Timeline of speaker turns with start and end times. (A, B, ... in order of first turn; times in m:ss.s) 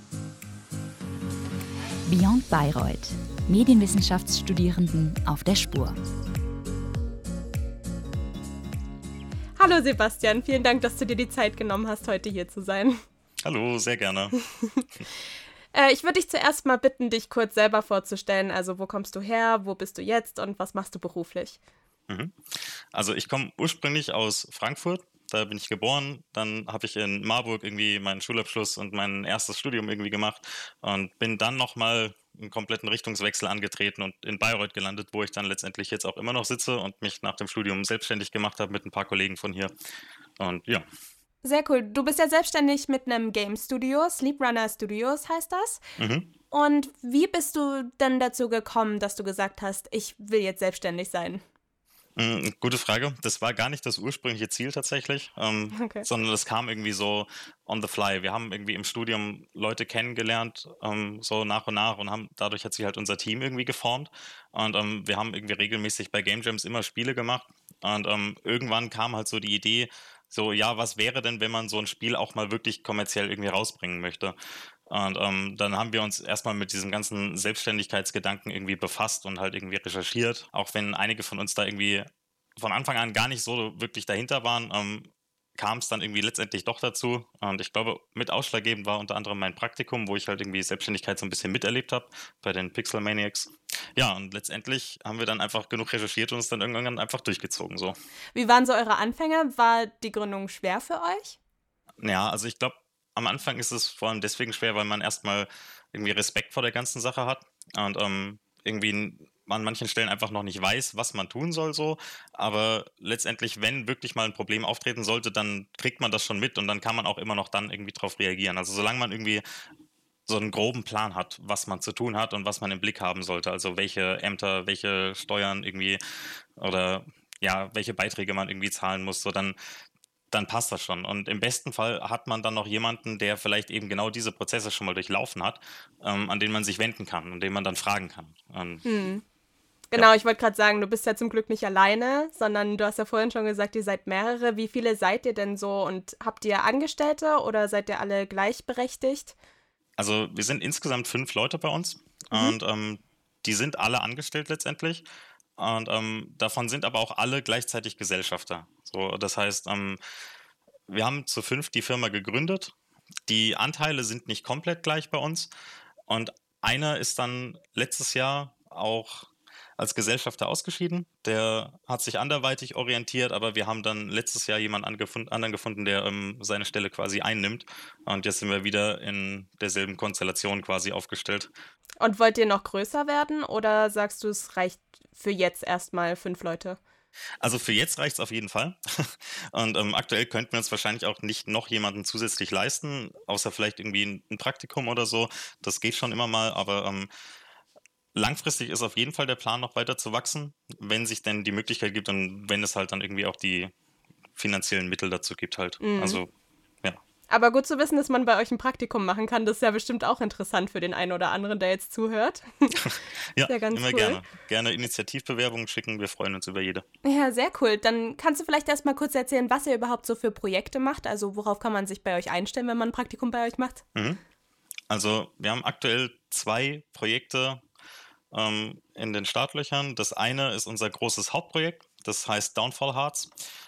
0:02.1-0:06.0 A
0:09.6-0:13.0 B
0:13.4-0:14.4 C
0:15.7-0:21.6 B
0:22.1-0:39.7 C
0:40.4-0:40.8 C
0:41.4-0:45.8 B
0:46.0-0:46.3 C
0:46.5-0:51.4 B
0:52.2-1:14.4 C
0:55.8-0:56.1 B
1:14.9-1:38.0 C
1:38.4-1:41.4 B
1:42.0-1:59.4 C
2:00.3-2:06.0 C
2:06.6-2:09.6 C
2:10.3-2:18.8 C
2:18.8-2:19.2 B
2:19.9-2:29.3 B
2:30.0-2:35.0 C
2:35.6-2:40.0 C
2:40.9-2:42.7 C
2:43.3-2:45.5 C
2:46.1-3:01.5 C
3:02.0-3:06.8 B
3:07.4-3:17.1 C
3:18.1-3:23.7 C
3:24.4-3:26.3 C
3:25.8-3:26.2 B
3:27.3-3:32.9 B
3:32.8-3:36.8 C
3:33.4-3:34.2 B
3:37.0-3:43.8 B
3:44.0-3:44.2 C
3:44.9-3:47.6 C
3:48.3-3:53.3 C